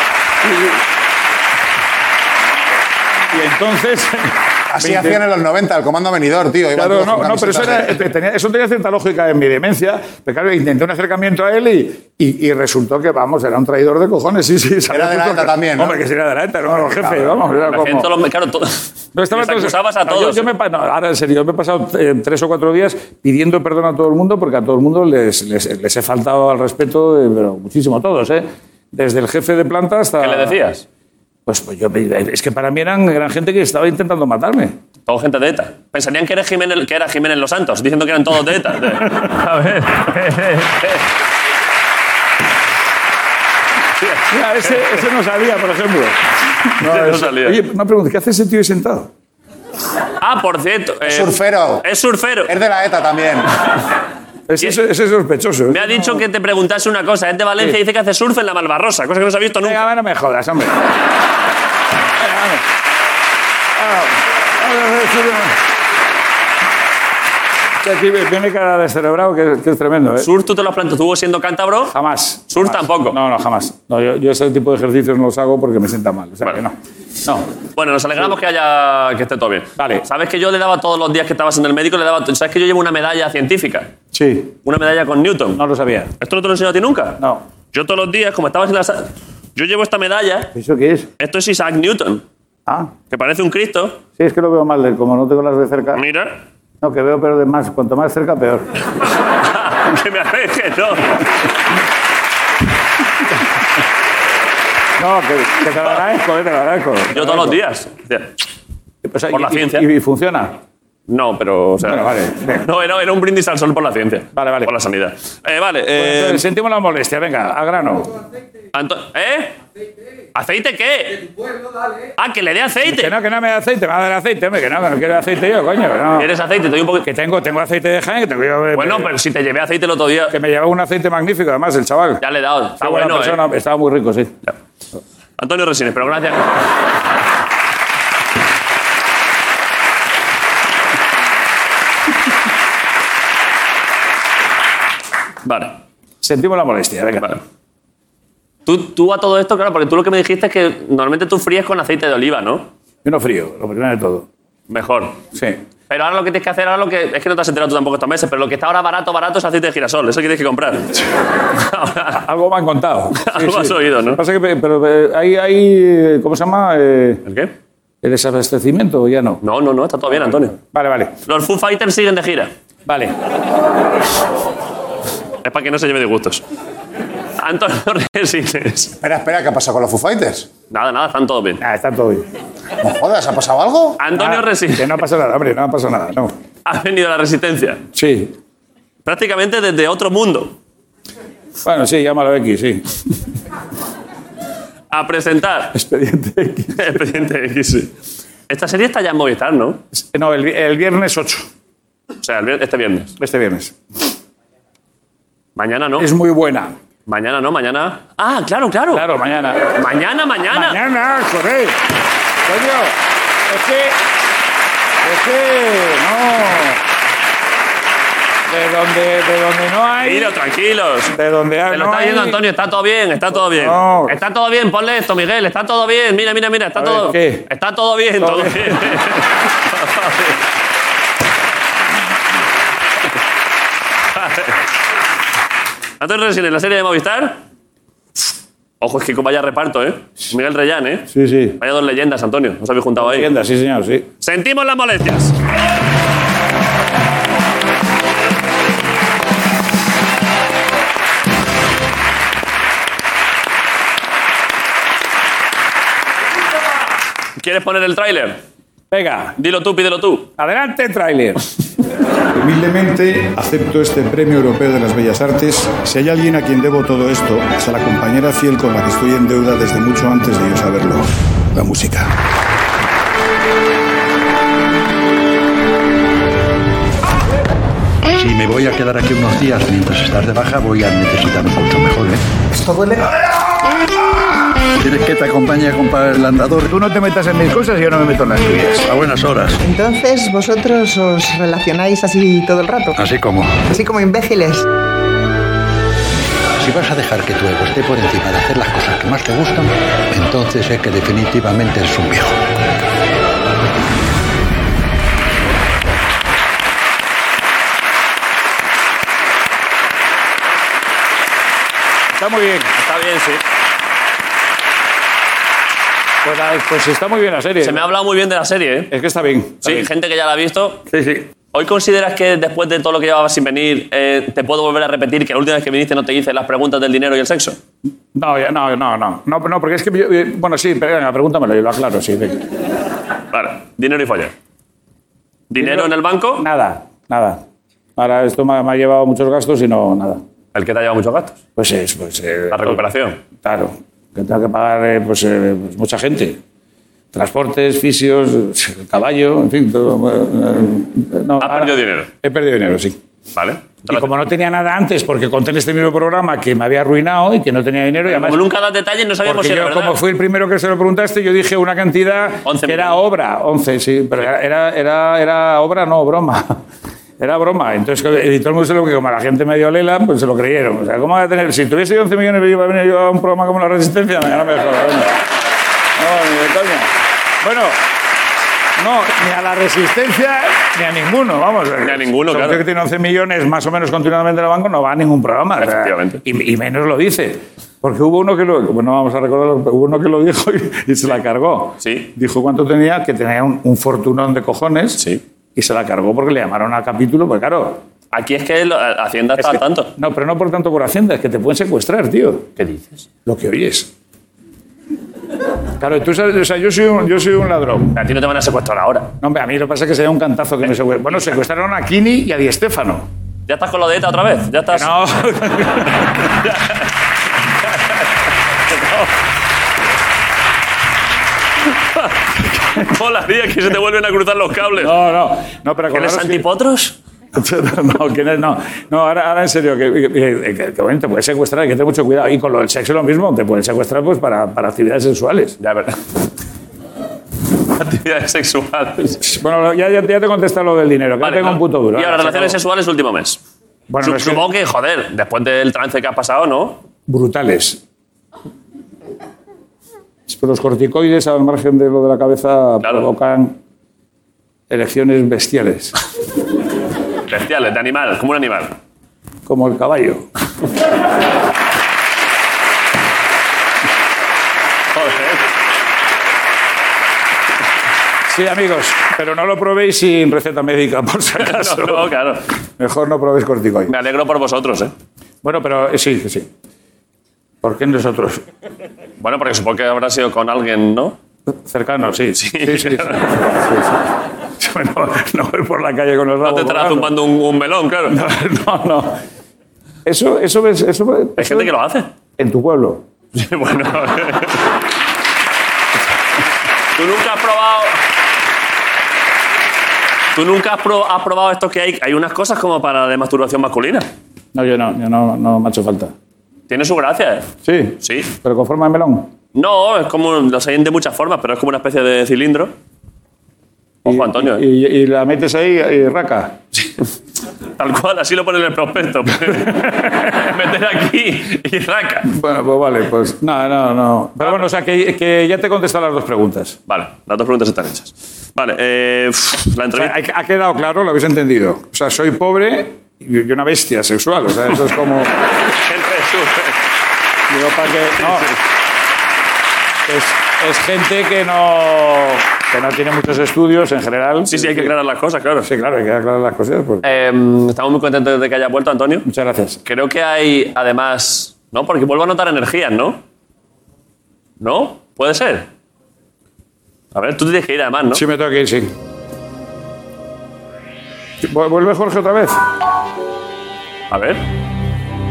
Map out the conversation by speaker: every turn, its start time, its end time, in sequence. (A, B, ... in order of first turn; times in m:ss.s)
0:03.3-0:05.2 A
0:04.7-0:08.0 B
0:06.8-0:18.1 A
0:14.9-0:16.0 B
0:17.5-0:20.5 C
0:19.1-0:30.6 A
0:30.2-0:30.8 C
0:31.5-0:34.7 A
0:35.1-0:41.0 C
0:44.0-0:44.8 C
0:44.3-0:46.2 A
0:46.8-0:49.1 A
0:46.8-0:47.6 C
0:50.2-0:52.5 C
0:51.0-0:51.8 B
0:52.5-0:53.5 B
0:54.5-0:56.2 A
0:55.7-0:59.8 C
0:59.6-1:00.8 A
1:02.2-1:02.6 A
1:03.8-1:05.6 A
1:07.8-1:10.3 A
1:10.2-1:11.9 C
1:11.9-1:17.4 A
1:12.5-1:13.2 C
1:17.7-1:23.9 C
1:19.8-1:20.0 A
1:24.1-1:24.5 A
1:24.6-1:25.6 C
1:25.5-1:26.1 A
1:26.2-1:27.2 C
1:27.7-1:30.5 C
1:30.5-1:31.1 A
1:31.2-1:32.2 C
1:33.1-1:34.0 C
1:34.2-1:36.0 A
1:35.9-1:36.4 C
1:36.8-1:38.7 A
1:39.4-1:41.3 C
1:45.0-1:47.6 A
1:47.1-1:48.3 C
1:49.1-1:50.5 A
1:49.3-1:49.8 C
1:51.1-1:56.4 C
1:51.8-1:52.6 A
1:54.3-1:54.7 A
1:55.9-1:58.1 A
1:58.7-1:59.6 C
2:00.3-2:01.2 C
2:02.2-2:03.1 C
2:02.8-2:06.2 A
2:06.2-2:07.1 C
2:07.0-2:09.1 A
2:08.7-2:10.4 C
2:10.3-2:12.2 A
2:12.2-2:13.4 C
2:12.8-2:14.3 A
2:15.4-2:16.5 C
2:25.4-2:25.8 C
2:26.2-2:27.4 A
2:28.6-2:32.7 C
2:33.0-2:34.3 A
2:34.7-2:35.2 C
2:35.9-2:41.0 C
2:41.5-2:42.2 C
2:42.1-2:47.2 A
2:43.2-2:44.2 C
2:47.2-2:47.5 C
2:48.0-2:49.4 A
2:49.4-2:50.6 C
2:50.1-2:51.1 A
2:51.2-2:52.5 C
2:52.9-2:53.1 A
2:55.4-2:56.4 C
2:57.4-2:58.9 C
2:59.0-3:00.5 B
3:00.7-3:01.6 C
3:01.6-3:02.2 A
3:02.8-3:04.0 B
3:04.0-3:04.9 C
3:04.1-3:06.3 A
3:06.6-3:07.8 C
3:07.9-3:08.3 A
3:09.0-3:10.5 C
3:11.6-3:13.0 A
3:14.9-3:15.8 C
3:15.7-3:17.0 A
3:16.8-3:17.9 C
3:18.5-3:19.8 C
3:20.1-3:21.5 A
3:22.2-3:23.1 C
3:23.2-3:23.7 A
3:25.6-3:26.1 C
3:26.0-3:26.8 A
3:27.1-3:29.0 C
3:28.9-3:29.7 A
3:29.8-3:30.8 C
3:30.5-3:31.8 A
3:32.4-3:32.9 A
3:33.5-3:34.0 A
3:35.0-3:36.8 A
3:38.5-3:40.3 A
3:40.0-3:41.1 C
3:41.1-3:42.4 A
3:41.7-3:50.4 C
3:43.5-3:44.1 A
3:46.8-3:47.4 A
3:48.2-3:49.0 A
3:54.1-3:54.6 C
3:56.0-3:57.4 C
3:58.8-4:03.3 C
4:01.1-4:01.6 A
4:03.0-4:04.0 A
4:04.2-4:05.3 C
4:17.4-4:18.4 C
4:18.9-4:19.4 A
4:19.4-4:20.3 C
4:20.4-4:21.5 A
4:22.4-4:32.1 D
4:38.1-4:42.2 E
4:42.5-4:43.0 F
4:44.8-4:46.7 E
4:46.7-4:48.8 A
4:48.8-4:49.6 E
4:49.6-4:53.0 F
4:53.0-4:53.6 E
4:53.7-4:54.6 F
4:56.6-5:02.4 E
5:12.2-5:12.7 A
5:12.8-5:13.4 C
5:16.2-5:17.8 A
5:17.6-5:18.9 C
5:18.9-5:19.9 A
5:19.6-5:20.8 C
5:20.9-5:21.2 A
5:21.5-5:27.6 C
5:28.1-5:32.4 A
5:33.3-5:34.3 C
5:35.5-5:36.4 C
5:35.6-5:37.4 A
5:38.0-5:40.2 A
5:40.5-5:41.4 C
5:41.6-5:42.8 A
5:42.5-5:43.2 C
5:43.4-5:46.4 A
5:47.1-5:53.0 A
5:51.4-5:52.1 C
5:53.3-5:54.1 C
5:53.9-5:58.4 A
5:58.1-6:00.0 C
5:59.2-6:06.6 A
6:02.4-6:03.0 C
6:07.2-6:15.1 A
6:16.0-6:16.9 A
6:17.4-6:17.8 A
6:18.8-6:35.0 A
6:21.8-6:22.6 C
6:25.6-6:26.2 C
6:31.8-6:32.1 C
6:35.6-6:37.8 A
6:38.1-6:39.9 C
6:39.4-6:42.5 A
6:42.6-6:43.0 C
6:43.2-6:43.9 A
6:45.8-6:47.9 A
6:47.9-6:49.1 C
6:49.2-6:53.1 A
6:53.5-6:54.9 C
6:54.7-6:56.1 A
6:56.3-6:56.9 C
6:58.7-6:59.1 C
7:02.8-7:05.0 C
7:04.8-7:06.4 A
7:05.9-7:06.9 C
7:07.3-7:15.6 A
7:15.6-7:16.0 C
7:17.7-7:19.2 C
7:19.2-7:22.6 A
7:21.2-7:23.4 C
7:23.9-7:24.4 A
7:24.0-7:26.8 C
7:27.1-7:27.8 A
7:30.3-7:33.6 A
7:34.7-7:35.9 A
7:37.3-7:38.8 C
7:39.4-7:40.2 A
7:44.9-7:45.4 C
7:48.3-7:52.1 A
7:51.4-7:52.4 C
7:52.8-7:53.9 A
7:53.9-7:54.9 C
7:55.4-7:56.5 A
7:57.6-7:58.4 A
7:59.2-8:01.2 C
8:01.6-8:04.0 A
8:02.4-8:03.3 C
8:04.6-8:07.1 A
8:06.4-8:08.2 C
8:08.1-8:09.2 A
8:10.0-8:11.7 A
8:11.4-8:12.1 C
8:12.4-8:13.0 A
8:13.3-8:14.7 C
8:17.0-8:18.0 C
8:20.3-8:24.1 C
8:24.5-8:26.1 A
8:26.7-8:27.5 C
8:27.6-8:29.3 A
8:28.0-8:28.3 C
8:29.5-8:32.7 C
8:34.0-8:34.6 C
8:34.0-8:36.6 A
8:37.8-8:42.3 C
8:39.5-8:40.3 A
8:42.3-8:46.8 A
8:46.9-8:50.1 C
8:50.0-8:55.3 A
8:55.7-8:56.8 C
8:57.5-8:58.5 A
8:58.0-8:58.6 C
9:00.1-9:04.9 A
9:04.5-9:05.7 C
9:05.6-9:07.0 A
9:07.0-9:09.3 C
9:09.2-9:09.8 A
9:09.8-9:13.2 C
9:14.6-9:15.7 C
9:17.1-9:18.2 C
9:18.1-9:18.9 A
9:21.4-9:22.6 A
9:24.1-9:24.4 C